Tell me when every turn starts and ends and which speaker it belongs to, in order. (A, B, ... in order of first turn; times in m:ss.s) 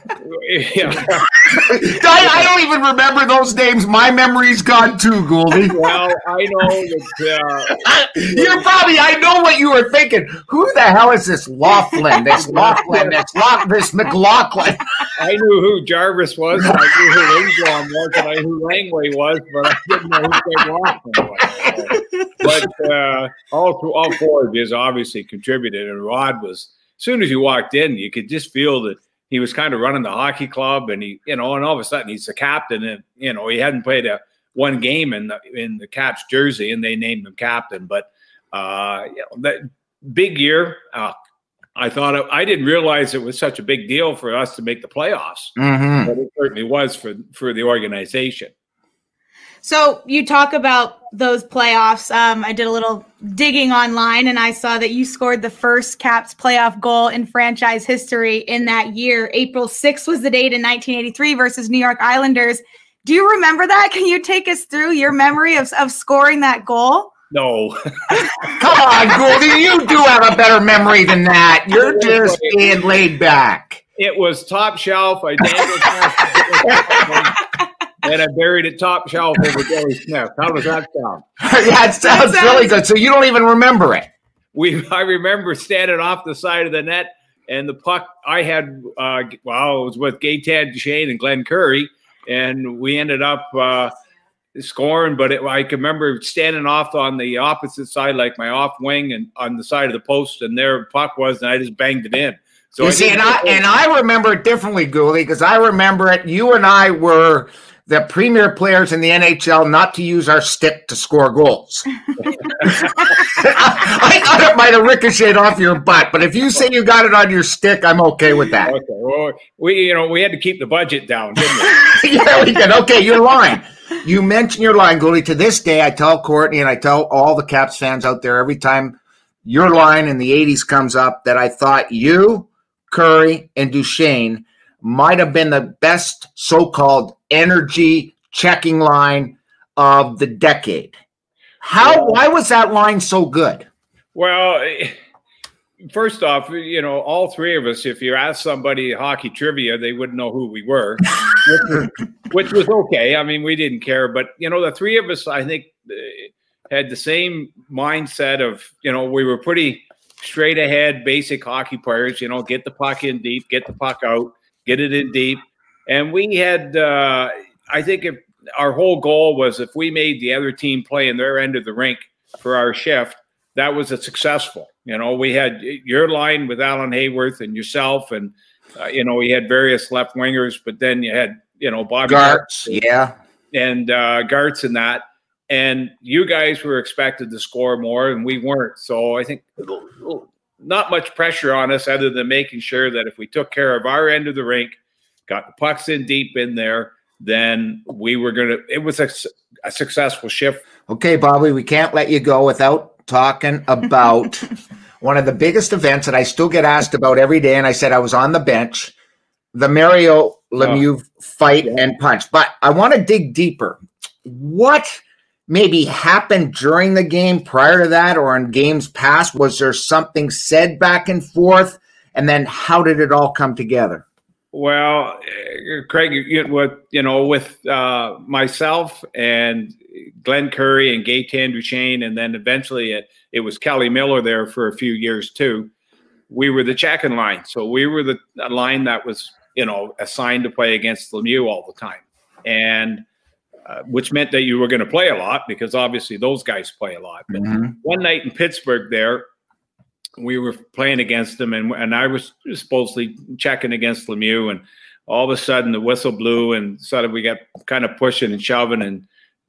0:00.2-0:02.5 A
0:01.5-0:05.8 B
0:05.7-0:08.7 A
0:07.8-0:14.9 B
0:12.3-0:13.2 A
0:15.2-0:41.2 A
0:16.7-0:17.5 B
0:21.5-0:22.7 B
0:41.8-0:48.5 A
0:45.6-0:46.1 B
0:49.6-1:07.1 C
1:07.3-1:08.6 A
1:08.6-1:13.8 B
1:11.8-1:12.7 A
1:14.0-1:17.4 A
1:16.7-1:17.0 B
1:18.0-1:21.2 A
1:21.4-1:24.1 B
1:22.0-1:22.8 C
1:24.5-1:33.9 A
1:34.6-1:43.6 A
1:42.8-1:51.9 B
1:52.6-1:58.7 B
1:58.6-2:01.9 A
2:01.6-2:21.0 B
2:21.6-2:23.7 B
2:21.8-2:22.2 A
2:24.2-2:25.0 A
2:25.9-3:02.8 A
3:02.1-3:03.1 B
3:03.5-3:20.6 A
3:20.9-3:24.5 B
3:25.0-3:28.9 B
3:29.5-3:44.0 B
3:30.6-3:30.8 A
3:44.5-3:55.7 A
3:56.3-4:03.0 A
4:03.7-4:09.3 A
4:07.4-4:07.7 B
4:10.2-4:19.1 A